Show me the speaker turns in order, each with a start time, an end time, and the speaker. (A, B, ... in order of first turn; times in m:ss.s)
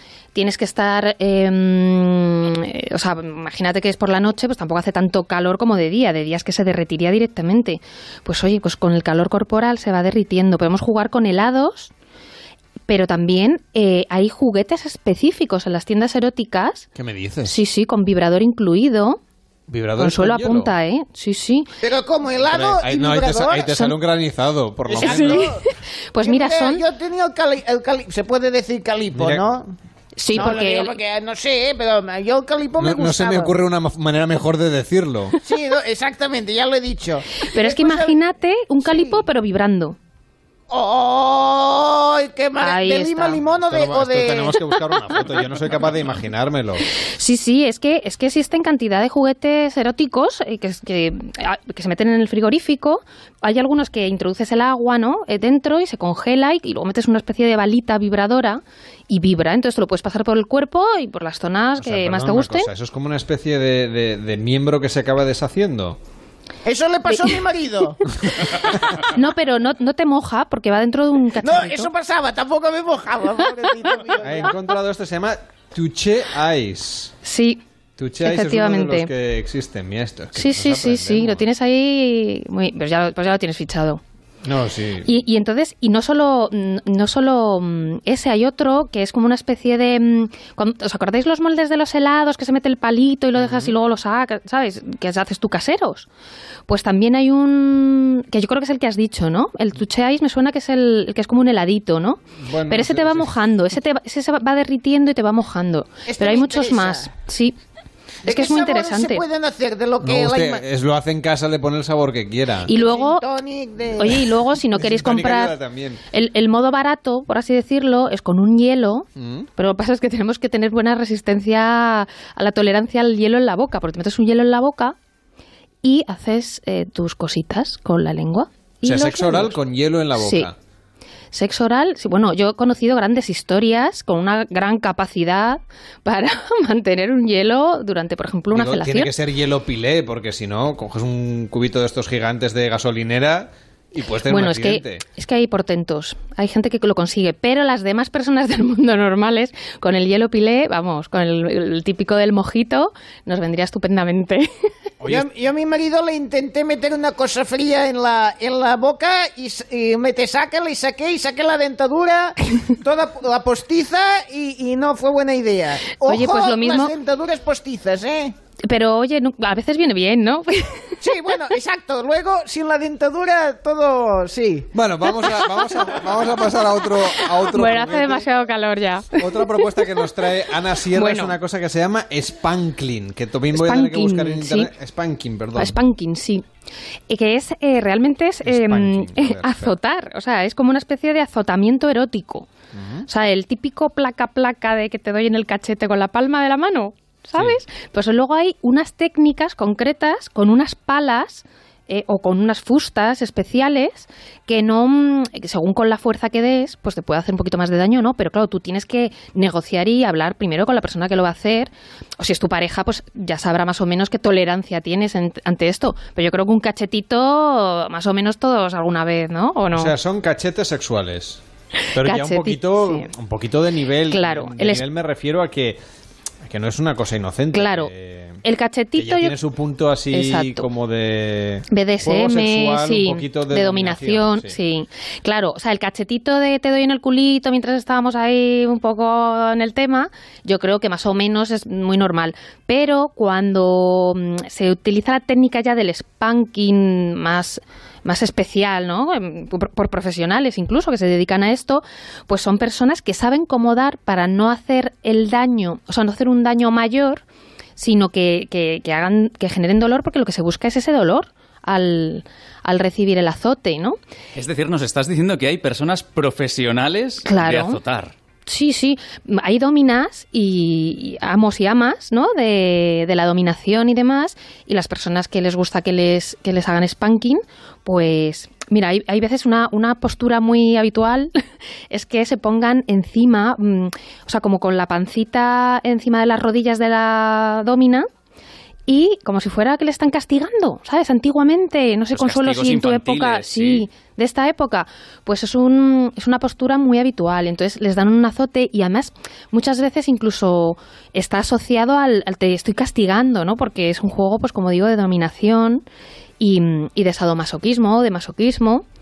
0:00.4-0:11.9 A
0:12.9-0:16.9 A
0:17.0-0:17.6 B
0:17.4-0:19.2 A
0:19.7-0:20.7 B
0:20.0-0:21.7 A
0:21.8-0:23.8 C
0:22.5-0:25.5 B
0:23.7-0:23.9 A
0:24.9-0:26.8 A
0:24.9-0:25.7 C
0:26.2-0:29.8 C
0:29.2-0:29.4 B
0:30.2-0:31.0 A
0:30.3-0:33.5 C
0:32.8-0:35.4 B
0:35.4-0:38.2 C
0:37.5-0:40.0 A
0:38.8-0:39.2 C
0:40.7-0:44.6 C
0:42.6-0:43.4 A
0:43.6-0:46.8 B
0:47.2-1:02.7 A
1:01.8-1:06.0 B
1:06.6-1:08.0 C
1:08.4-1:11.9 A
1:11.4-1:14.5 C
1:14.2-1:17.1 B
1:17.2-1:17.6 A
1:18.0-1:21.4 B
1:18.2-1:19.1 A
1:20.4-1:24.0 A
1:24.4-1:25.1 B
1:25.0-1:36.1 A
1:33.4-1:33.7 B
1:36.7-1:47.6 A
1:42.4-1:43.3 B
1:46.1-1:47.1 C
1:48.2-1:49.2 A
1:48.2-1:50.6 C
1:50.0-1:52.7 B
1:52.6-1:53.2 A
1:52.8-1:54.2 C
1:54.0-1:55.6 A
1:54.7-1:56.0 B
1:56.1-2:05.0 A
1:59.2-1:59.5 B
2:05.8-2:09.6 A
2:08.8-2:10.5 B
2:10.2-2:10.5 A
2:11.3-2:19.1 A
2:18.5-2:25.0 B
2:24.2-2:34.5 A
2:35.0-2:35.2 B
2:35.1-2:48.3 C
2:46.0-2:46.9 A
2:48.6-2:51.0 A
2:51.0-2:54.7 C
2:54.7-2:58.2 B
2:57.2-3:00.1 A
2:59.2-3:05.8 B
3:00.8-3:01.4 A
3:03.5-3:04.7 A
3:05.6-3:06.4 A
3:07.1-3:12.5 A
3:08.4-3:09.7 B
3:12.8-3:13.1 B
3:13.1-3:39.9 A
3:39.7-3:41.4 B
3:41.9-3:45.8 B
3:42.0-3:43.1 A
3:44.1-3:44.8 A
3:46.4-3:48.4 B
3:47.5-3:47.9 A
3:48.4-3:49.4 A
3:49.0-3:54.6 B
3:50.1-3:50.7 A
3:51.7-4:17.2 A
4:17.8-4:24.0 A
4:24.4-4:28.1 D
4:27.2-4:27.8 A
4:28.5-4:41.4 A
4:41.9-4:48.1 A
4:48.9-5:05.8 A
4:52.1-4:53.8 D
5:06.4-5:08.8 A